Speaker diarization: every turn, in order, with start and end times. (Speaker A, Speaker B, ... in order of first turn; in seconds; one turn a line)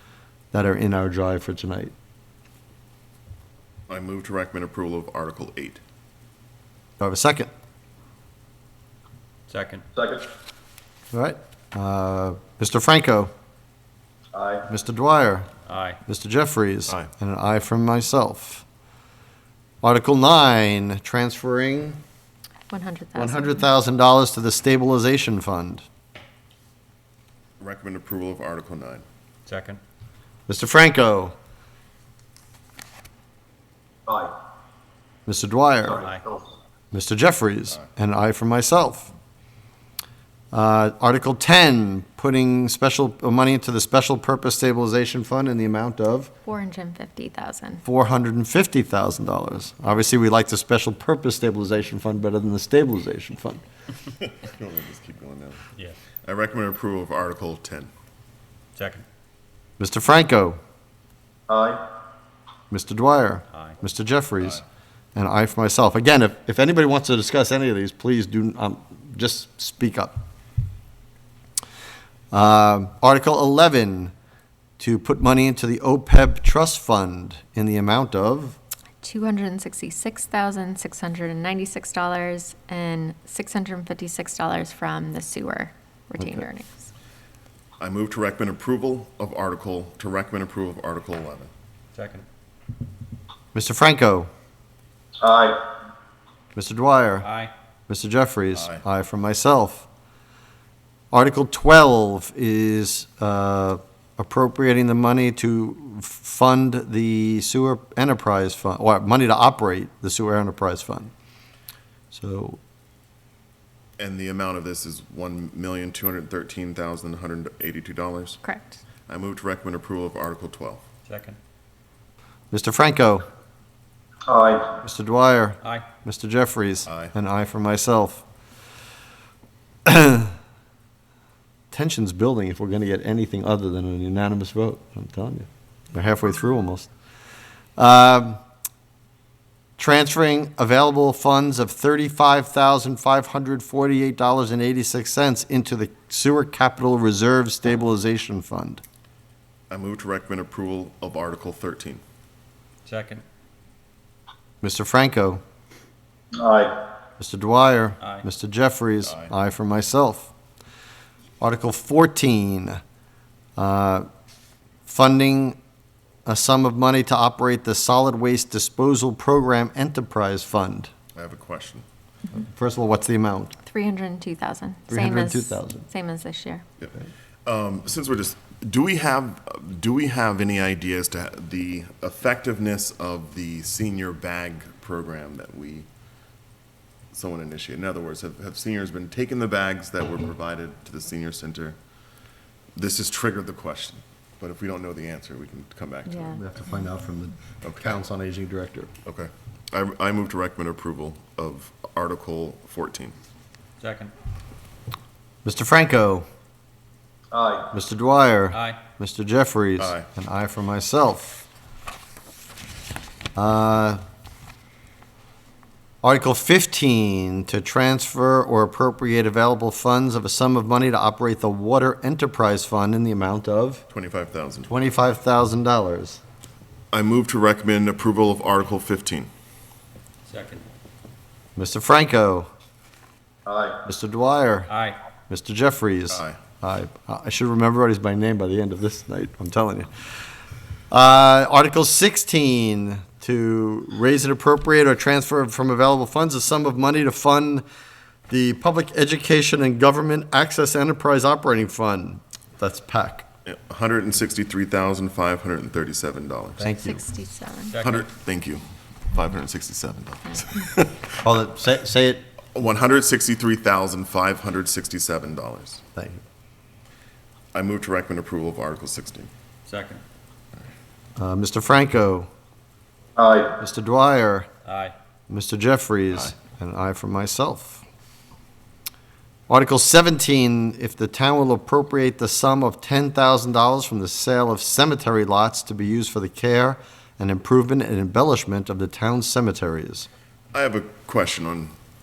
Speaker A: 0.5-1.9
Speaker B: 3.9-5.8
Speaker A: 7.0-7.5
Speaker C: 9.5-9.8
Speaker D: 10.0-10.2
Speaker A: 11.1-13.3
Speaker D: 14.3-14.6
Speaker A: 14.7-15.5
Speaker C: 15.7-16.0
Speaker A: 16.1-18.6
Speaker A: 19.8-22.0
Speaker E: 22.7-23.5
Speaker C: 23.1-23.6
Speaker A: 23.1-25.9
Speaker B: 27.6-29.1
Speaker C: 29.5-29.8
Speaker A: 30.5-31.4
Speaker D: 34.1-34.3
Speaker A: 35.3-36.1
Speaker C: 35.9-36.2
Speaker D: 36.0-36.4
Speaker A: 36.9-39.1
Speaker A: 40.5-46.3
Speaker E: 46.5-47.8
Speaker A: 47.9-53.6
Speaker B: 54.2-55.6
Speaker B: 56.2-57.9
Speaker C: 58.8-59.0
Speaker A: 59.8-60.6
Speaker D: 61.5-61.8
Speaker A: 62.7-64.6
Speaker C: 63.5-63.8
Speaker A: 65.2-70.2
Speaker A: 72.3-74.1
Speaker A: 74.8-78.6
Speaker E: 79.0-86.9
Speaker B: 87.8-91.5
Speaker C: 91.9-92.3
Speaker A: 93.5-94.3
Speaker D: 95.2-95.6
Speaker A: 96.5-97.3
Speaker C: 97.2-97.5
Speaker A: 97.9-99.9
Speaker B: 98.5-98.8
Speaker A: 101.1-111.1
Speaker A: 112.1-112.6
Speaker B: 114.0-118.4
Speaker B: 119.1-120.8
Speaker C: 121.1-121.4
Speaker A: 122.5-123.2
Speaker D: 124.3-124.7
Speaker A: 124.7-128.2
Speaker B: 126.9-127.1
Speaker A: 129.9-130.3
Speaker A: 131.7-136.9
Speaker A: 137.8-138.4
Speaker A: 139.8-148.8
Speaker B: 149.7-152.0
Speaker C: 152.8-153.2
Speaker A: 154.6-155.4
Speaker D: 156.4-156.8
Speaker A: 157.2-160.3
Speaker C: 158.0-158.3
Speaker B: 159.0-159.3
Speaker A: 161.4-162.8
Speaker A: 163.6-164.1
Speaker A: 164.9-165.6
Speaker A: 166.2-170.9
Speaker B: 171.2-171.8
Speaker A: 172.3-173.6
Speaker E: 173.7-176.6
Speaker A: 174.9-175.9
Speaker B: 177.5-185.9
Speaker B: 187.1-191.8
Speaker B: 192.8-196.4
Speaker A: 196.3-198.9
Speaker B: 197.6-197.9
Speaker B: 199.1-203.2
Speaker C: 203.8-204.1
Speaker A: 205.4-206.3
Speaker D: 207.3-207.7
Speaker A: 207.7-211.5
Speaker C: 208.5-208.8
Speaker B: 209.8-210.1
Speaker A: 213.3-214.0
Speaker A: 216.0-223.8
Speaker B: 223.9-224.7
Speaker A: 224.7-226.2
Speaker B: 226.9-229.3
Speaker C: 230.3-230.6
Speaker A: 231.6-232.5
Speaker D: 233.5-233.8
Speaker A: 233.8-234.7
Speaker C: 234.7-235.0
Speaker A: 235.3-239.9
Speaker B: 236.1-236.4
Speaker A: 240.9-247.6
Speaker A: 248.3-253.3
Speaker B: 253.4-256.7
Speaker A: 256.6-257.1
Speaker E: 256.9-257.8
Speaker C: 257.6-258.1
Speaker B: 257.8-261.2
Speaker A: 261.2-262.2
Speaker B: 262.5-265.8
Speaker A: 265.9-266.2
Speaker B: 267.5-269.3
Speaker C: 269.7-270.0
Speaker A: 271.2-272.3
Speaker D: 273.2-273.5
Speaker A: 273.5-274.5
Speaker C: 274.7-274.9
Speaker A: 275.3-277.8
Speaker A: 279.5-290.1
Speaker B: 290.5-291.7